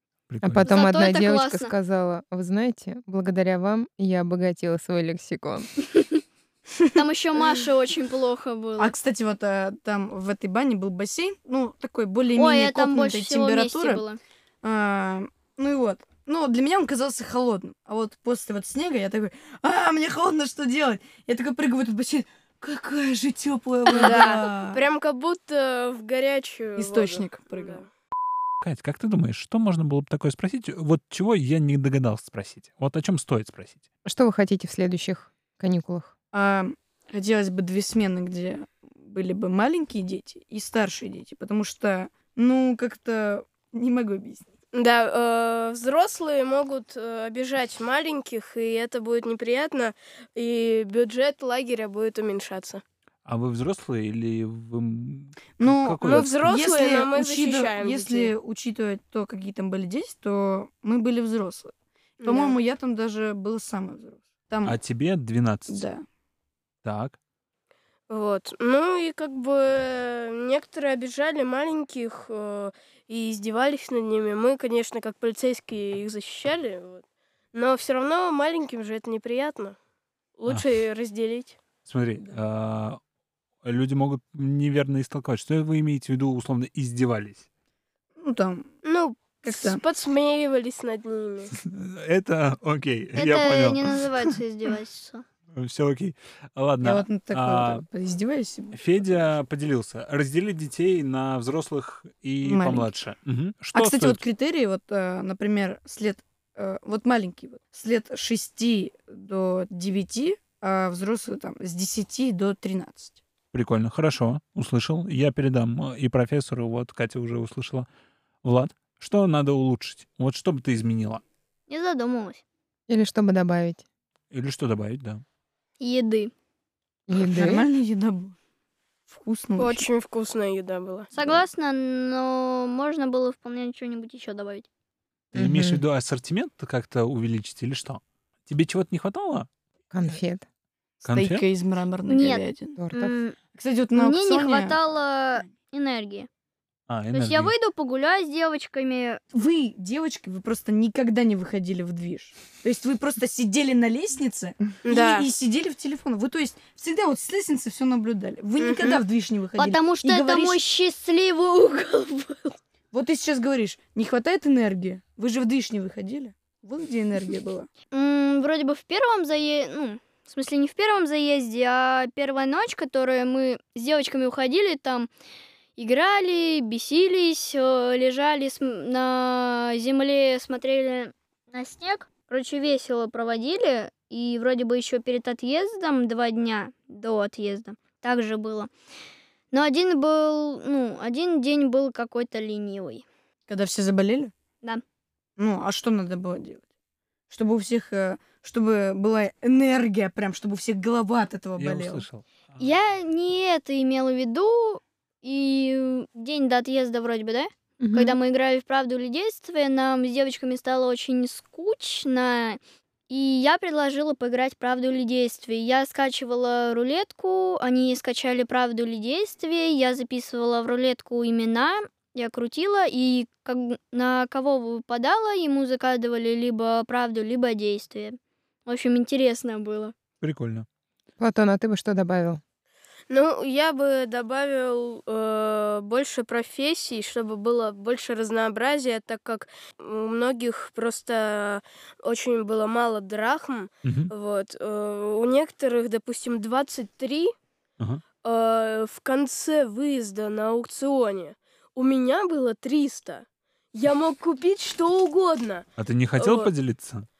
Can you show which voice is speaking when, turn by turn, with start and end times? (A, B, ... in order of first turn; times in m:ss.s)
0:00.3-0:00.7 A
0:00.4-0:05.7 B
0:00.6-0:01.7 C
0:06.9-0:08.9 C
0:08.8-0:14.0 D
0:12.4-0:14.2 C
0:14.6-0:24.8 D
0:23.9-0:27.9 E
0:23.9-0:24.4 C
0:26.8-0:27.8 D
0:28.6-0:33.8 A
0:34.0-0:36.1 B
0:36.3-0:44.4 D
0:44.7-0:52.8 E
0:53.2-0:56.5 A
0:55.6-1:01.7 D
0:56.1-0:58.3 E
1:02.2-1:02.6 E
1:02.2-1:04.8 D
1:04.6-1:05.8 A
1:05.7-1:06.0 D
1:06.8-1:07.2 A
1:08.1-1:19.8 E
1:20.4-1:21.6 E
1:21.8-1:23.0 A
1:23.6-1:27.4 A
1:28.2-1:28.8 D
1:28.8-1:31.5 E
1:29.4-1:29.8 D
1:31.5-1:33.8 A
1:33.1-1:35.2 C
1:35.5-1:37.9 A
1:36.8-1:38.8 D
1:38.7-1:44.2 A
1:42.4-1:42.9 D
1:43.7-1:53.2 D
1:53.5-1:57.9 A
1:58.4-2:01.2 A
2:01.7-2:02.4 C
2:02.9-2:03.8 B
2:04.3-2:05.2 A
2:05.8-2:06.3 C
2:07.1-2:07.6 B
2:07.2-2:08.4 D
2:09.1-2:09.9 D
2:09.6-2:11.1 E
2:11.1-2:14.7 C
2:15.3-2:19.5 A
2:15.4-2:15.8 B
2:19.9-2:20.4 B
2:21.0-2:21.4 A
2:21.1-2:22.8 D
2:22.1-2:23.4 C
2:22.8-2:23.2 B
2:23.5-2:24.8 D
2:24.0-2:26.3 C
2:26.9-2:27.5 A
2:27.1-2:29.2 C
2:29.3-2:40.6 D
2:34.8-2:35.3 E
2:38.6-2:39.0 E
2:39.6-2:42.6 C
2:42.9-2:47.7 D
2:47.9-2:55.1 C
2:55.8-3:08.7 C
3:09.5-3:13.0 C
3:13.5-3:14.3 D
3:15.4-3:16.6 D
3:17.3-3:22.1 D
3:21.6-3:22.6 A
3:22.6-3:32.6 C
3:27.8-3:28.2 B
3:33.1-3:50.0 C
3:50.2-3:50.7 A
3:51.2-3:52.4 B
3:53.1-4:07.3 E
4:03.8-4:04.1 A
4:08.2-4:15.7 E
4:15.8-4:17.1 A
4:16.2-4:16.5 E